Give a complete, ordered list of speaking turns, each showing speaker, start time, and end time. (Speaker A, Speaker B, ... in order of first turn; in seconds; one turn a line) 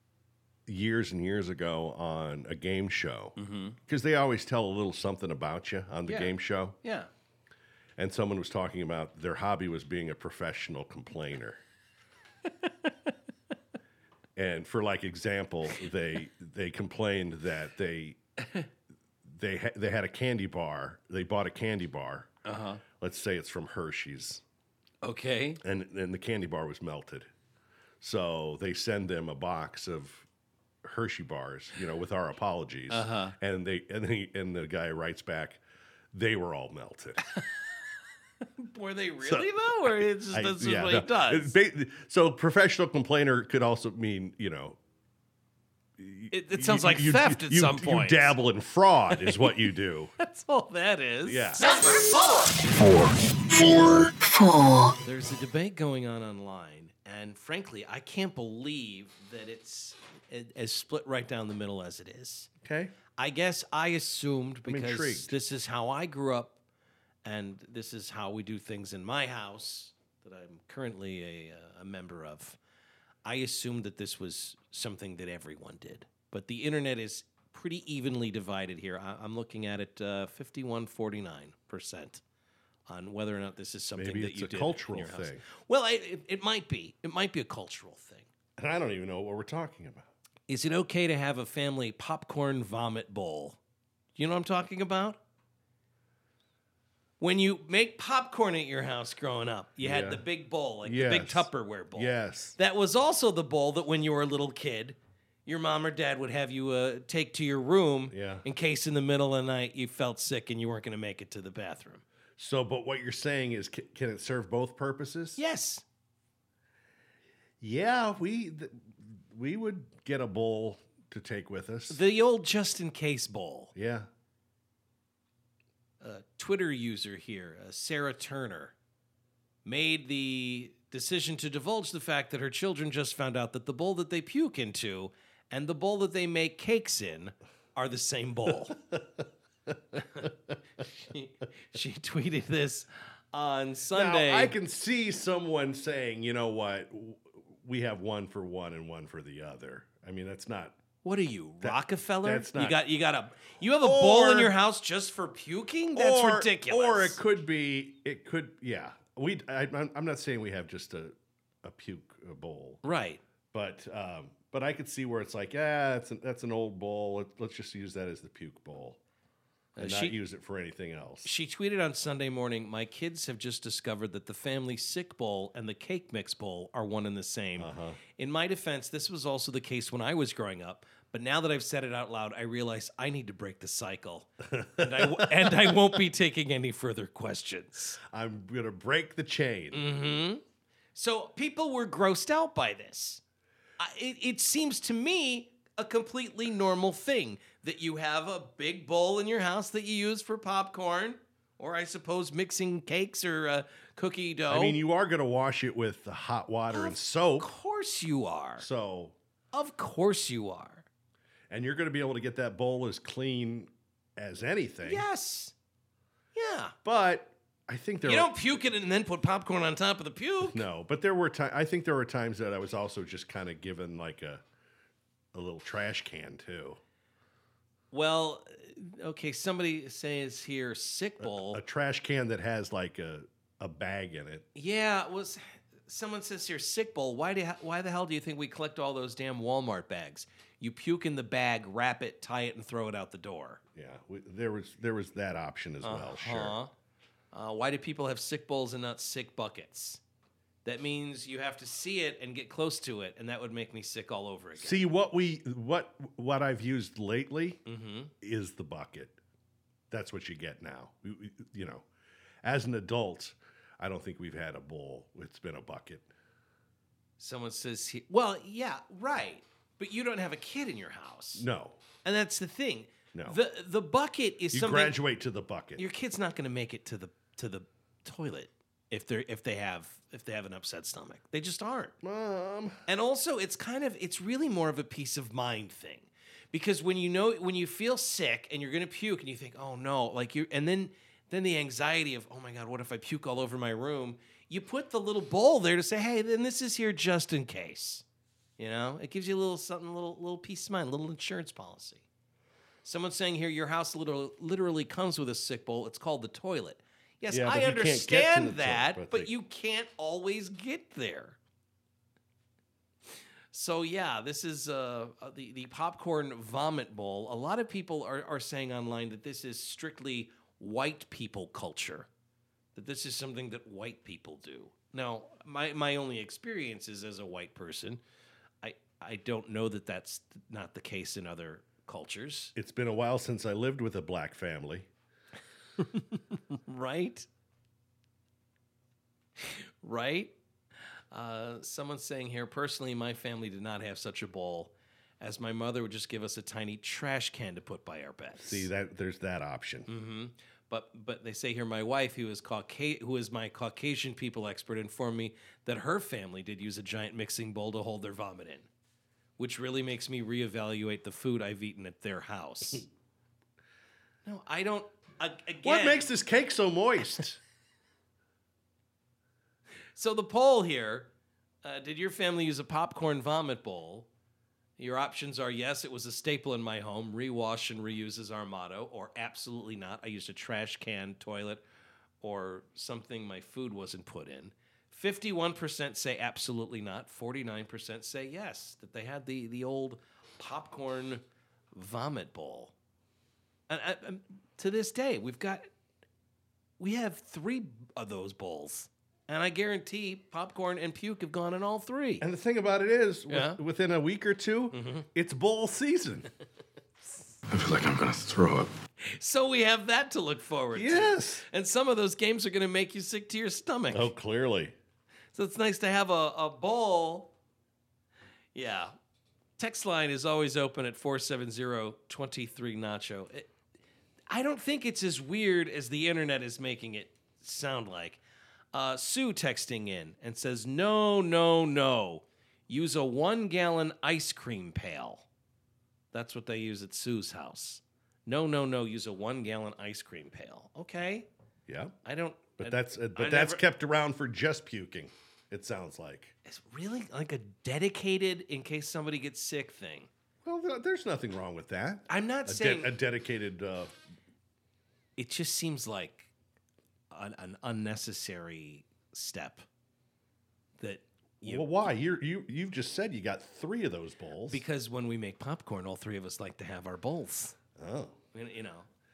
Speaker A: 0.7-6.8
Speaker B: 3.4-3.8
Speaker B: 6.0-7.1
Speaker A: 8.0-11.6
Speaker A: 14.4-18.2
Speaker A: 19.2-22.3
Speaker B: 22.4-22.8
Speaker A: 23.0-24.4
Speaker B: 25.0-25.6
Speaker A: 25.6-27.3
Speaker A: 28.0-30.2
Speaker A: 30.8-35.6
Speaker B: 32.9-33.4
Speaker A: 36.1-37.2
Speaker B: 38.4-41.5
Speaker A: 39.2-39.5
Speaker A: 40.0-44.8
Speaker A: 46.0-50.1
Speaker B: 46.3-48.4
Speaker B: 49.1-49.5
Speaker B: 50.2-51.8
Speaker A: 51.2-51.6
Speaker C: 51.6-55.0
Speaker B: 55.0-62.5
Speaker A: 62.6-63.0
Speaker B: 63.1-66.6
Speaker A: 64.7-65.4
Speaker B: 67.2-72.6
Speaker B: 73.2-82.2
Speaker B: 82.9-88.3
Speaker A: 84.0-85.4
Speaker A: 88.6-90.1
Speaker B: 90.5-93.6
Speaker B: 94.2-95.2
Speaker B: 97.2-112.0
Speaker A: 99.8-100.2
Speaker A: 100.8-102.5
Speaker A: 108.1-108.4
Speaker A: 112.4-115.4
Speaker B: 115.4-115.8
Speaker A: 117.6-122.0
Speaker B: 121.9-123.7
Speaker A: 123.7-124.1
Speaker B: 126.0-128.7
Speaker B: 129.6-138.8
Speaker B: 140.8-144.5
Speaker A: 143.9-150.8
Speaker B: 151.0-157.2
Speaker A: 151.6-152.8
Speaker A: 153.8-154.5
Speaker A: 155.9-162.8
Speaker B: 162.8-163.2
Speaker A: 163.5-169.0
Speaker B: 169.8-170.2
Speaker A: 169.8-171.3
Speaker B: 171.2-188.0
Speaker A: 177.6-178.0
Speaker A: 184.5-185.8
Speaker A: 188.1-189.9
Speaker B: 189.7-190.4
Speaker B: 190.9-193.2
Speaker B: 193.8-204.8
Speaker A: 204.5-207.5
Speaker B: 206.7-208.7
Speaker A: 208.6-209.2
Speaker B: 209.5-210.8
Speaker A: 211.5-215.1
Speaker B: 214.8-215.5
Speaker B: 216.3-216.7
Speaker A: 216.8-218.3
Speaker B: 218.0-220.6
Speaker A: 220.4-224.4
Speaker A: 225.3-226.8
Speaker B: 227.9-231.6
Speaker A: 231.2-234.4
Speaker B: 234.5-243.6
Speaker A: 243.7-246.6
Speaker B: 245.8-246.7
Speaker B: 247.3-250.0
Speaker B: 250.6-254.8
Speaker A: 254.6-257.6
Speaker B: 257.6-258.1
Speaker A: 258.2-259.2
Speaker A: 259.9-261.8
Speaker A: 262.4-266.1
Speaker B: 267.2-271.4
Speaker A: 271.4-271.8
Speaker B: 272.0-275.0
Speaker A: 273.1-273.4
Speaker A: 274.5-275.8
Speaker B: 275.8-281.9
Speaker A: 282.0-282.8
Speaker B: 282.9-298.0
Speaker B: 298.6-302.1
Speaker B: 302.8-311.4
Speaker A: 307.3-309.3
Speaker B: 313.5-322.1
Speaker B: 322.7-328.0
Speaker B: 328.6-332.5
Speaker A: 332.6-334.9
Speaker B: 335.8-337.3
Speaker B: 339.4-340.3
Speaker B: 341.1-348.7
Speaker A: 348.4-349.9
Speaker B: 349.9-358.7
Speaker B: 359.4-362.9
Speaker B: 364.2-366.1
Speaker A: 365.6-367.4
Speaker B: 369.9-371.1
Speaker B: 371.6-374.1
Speaker B: 374.8-381.6
Speaker B: 382.2-392.7
Speaker B: 393.7-395.7
Speaker B: 396.8-402.2
Speaker A: 402.2-406.3
Speaker B: 403.3-403.6
Speaker B: 404.7-405.1
Speaker C: 407.5-408.7
Speaker B: 409.0-414.1
Speaker A: 410.7-411.4
Speaker A: 413.9-414.7
Speaker B: 415.3-417.3
Speaker B: 418.6-418.9
Speaker B: 419.6-423.5
Speaker B: 424.3-428.2
Speaker B: 428.7-435.3
Speaker B: 436.1-441.3
Speaker A: 441.7-442.0
Speaker B: 442.0-443.6
Speaker A: 442.6-446.3
Speaker B: 446.4-450.1
Speaker A: 450.4-454.0
Speaker B: 452.1-452.9
Speaker B: 455.2-456.3
Speaker B: 457.1-459.6
Speaker B: 460.8-461.7
Speaker A: 461.4-464.6
Speaker B: 464.5-467.6
Speaker A: 467.8-468.1
Speaker B: 468.3-468.9